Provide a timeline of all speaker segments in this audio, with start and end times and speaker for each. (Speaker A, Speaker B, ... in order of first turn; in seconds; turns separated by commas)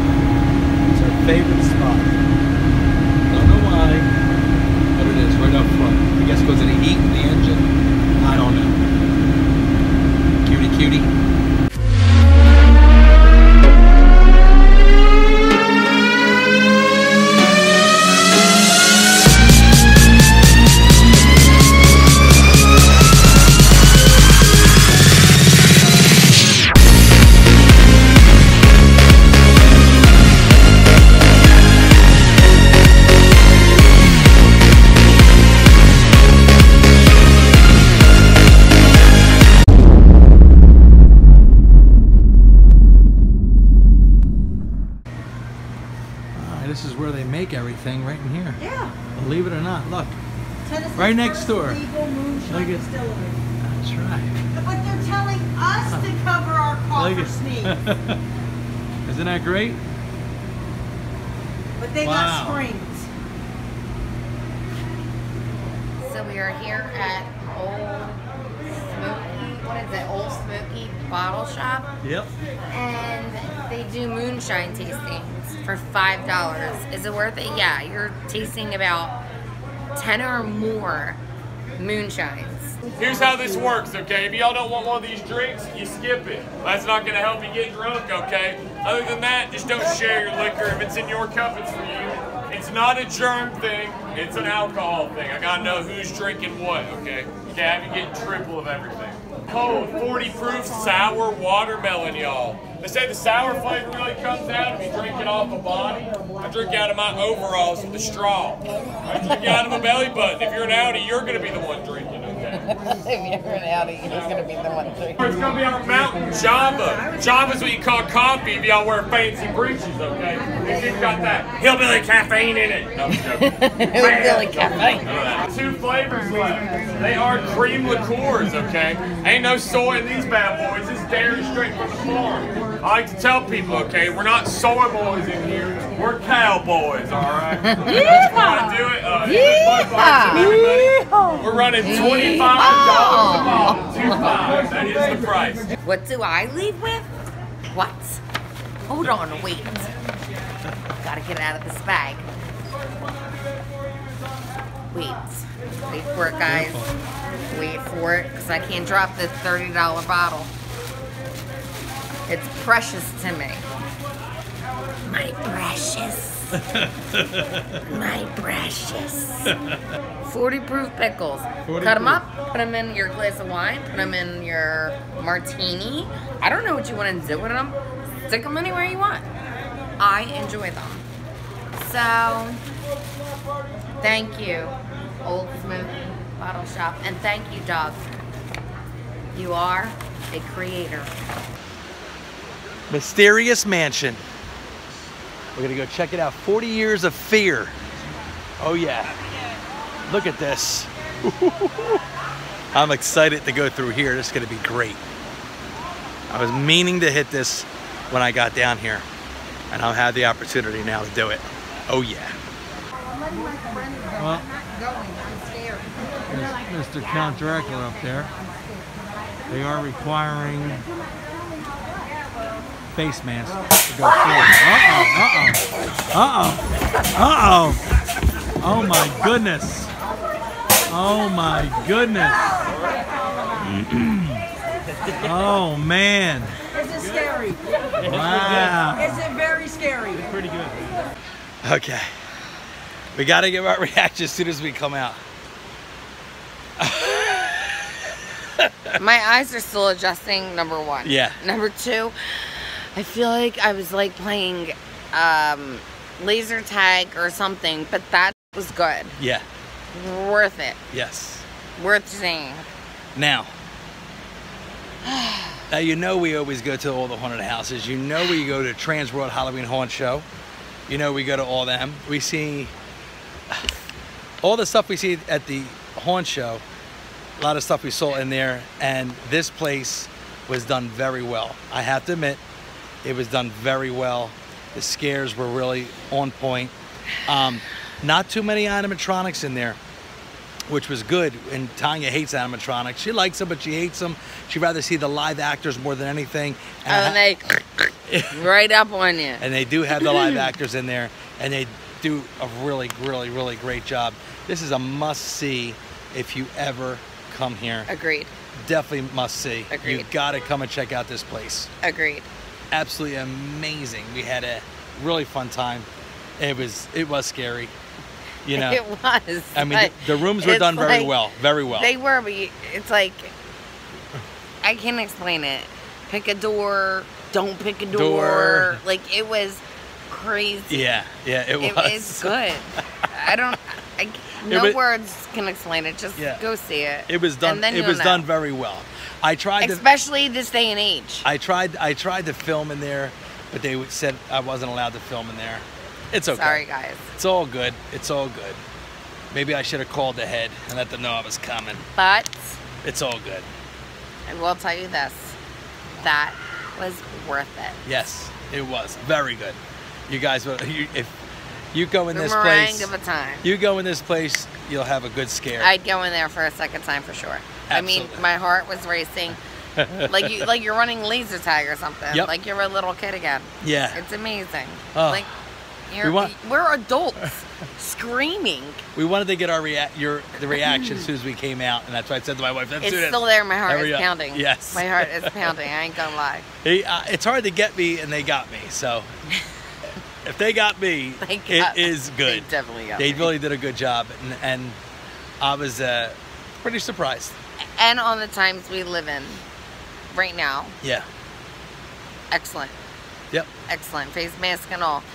Speaker A: 0.9-2.2, Speaker A: 3.3-4.1, Speaker A: 4.9-8.8, Speaker A: 10.4-11.1, Speaker A: 46.3-50.2, Speaker B: 48.6-48.9, Speaker B: 50.6-53.4, Speaker A: 50.9-51.9, Speaker A: 52.5-52.9, Speaker A: 53.6-54.5, Speaker B: 54.6-57.7, Speaker A: 55.9-56.2, Speaker A: 56.9-58.2, Speaker A: 59.0-59.8, Speaker B: 61.8-63.1, Speaker A: 62.0-62.7, Speaker C: 66.0-71.9, Speaker A: 72.0-72.3, Speaker C: 72.7-79.2, Speaker C: 79.9-81.2, Speaker C: 81.8-82.8, Speaker D: 83.0-112.6, Speaker C: 112.5-115.2, Speaker D: 115.2-145.7, Speaker C: 123.3-125.1, Speaker C: 137.6-138.7, Speaker C: 139.2-140.6, Speaker B: 140.6-141.3, Speaker C: 141.8-144.3, Speaker C: 145.8-147.1, Speaker C: 147.7-148.2, Speaker C: 148.9-149.9, Speaker C: 151.0-152.3, Speaker C: 154.9-156.9, Speaker A: 156.5-156.9, Speaker C: 157.5-160.5, Speaker C: 162.3-163.6, Speaker C: 165.0-166.6, Speaker A: 166.5-167.8, Speaker C: 167.9-169.5, Speaker A: 169.4-169.8, Speaker C: 170.2-179.2, Speaker A: 171.7-172.2, Speaker C: 180.0-181.0, Speaker C: 181.7-182.6, Speaker C: 184.0-188.0, Speaker C: 189.3-191.1, Speaker A: 192.9-194.2, Speaker A: 195.5-197.8, Speaker A: 198.6-199.2, Speaker A: 200.1-202.0, Speaker A: 202.7-205.0, Speaker A: 206.3-209.1, Speaker A: 209.7-212.4, Speaker A: 214.1-214.5, Speaker B: 214.8-215.8, Speaker A: 216.3-218.3, Speaker A: 219.5-220.8, Speaker A: 222.9-227.8, Speaker A: 228.6-229.9, Speaker A: 230.9-232.4, Speaker A: 233.6-234.5, Speaker A: 235.1-237.0, Speaker B: 237.0-237.6, Speaker A: 238.0-239.3, Speaker B: 239.3-240.3, Speaker A: 241.6-242.2, Speaker A: 243.1-245.2, Speaker A: 246.8-248.0, Speaker A: 248.6-249.0, Speaker C: 249.0-259.2, Speaker A: 251.0-251.4, Speaker A: 259.2-259.4, Speaker C: 259.9-260.8, Speaker A: 260.9-261.4, Speaker C: 261.8-262.6, Speaker A: 263.1-263.5, Speaker C: 265.0-265.6, Speaker A: 265.7-270.3, Speaker A: 270.9-272.7, Speaker A: 274.4-276.6, Speaker A: 277.4-282.4, Speaker A: 283.0-289.8, Speaker A: 290.7-297.2, Speaker C: 296.9-299.4, Speaker A: 298.1-298.5, Speaker A: 299.4-307.9, Speaker C: 299.9-300.4, Speaker C: 307.9-308.3, Speaker A: 308.6-311.7, Speaker C: 309.7-310.1, Speaker C: 311.8-312.3, Speaker A: 312.7-315.9, Speaker A: 316.4-317.7, Speaker A: 318.4-318.8, Speaker C: 318.5-321.1, Speaker A: 319.5-321.9, Speaker C: 321.7-323.3, Speaker C: 324.6-331.0, Speaker A: 327.9-328.8, Speaker A: 330.7-332.3, Speaker C: 331.6-338.3, Speaker A: 334.4-334.8, Speaker A: 336.1-336.4, Speaker A: 337.1-339.8, Speaker C: 339.6-341.2, Speaker A: 341.2-346.6, Speaker C: 346.3-347.1, Speaker A: 347.1-348.6, Speaker A: 349.3-351.9, Speaker C: 351.9-352.6, Speaker A: 352.8-353.5, Speaker C: 354.2-355.4, Speaker C: 356.0-357.8, Speaker A: 357.8-361.1, Speaker A: 361.7-362.9, Speaker C: 362.1-363.4, Speaker A: 363.4-365.7, Speaker C: 365.6-369.4, Speaker A: 367.7-368.3, Speaker A: 369.8-370.5, Speaker C: 370.0-375.3, Speaker A: 373.6-374.0, Speaker A: 374.9-375.3, Speaker C: 375.9-378.8, Speaker A: 376.0-376.3, Speaker A: 378.9-385.6, Speaker C: 380.5-381.1, Speaker C: 382.8-386.5, Speaker A: 386.6-389.1, Speaker A: 390.2-394.8, Speaker C: 391.2-393.3, Speaker A: 395.4-397.4, Speaker C: 397.8-399.4, Speaker C: 400.1-400.8, Speaker C: 402.3-402.8, Speaker C: 403.7-405.0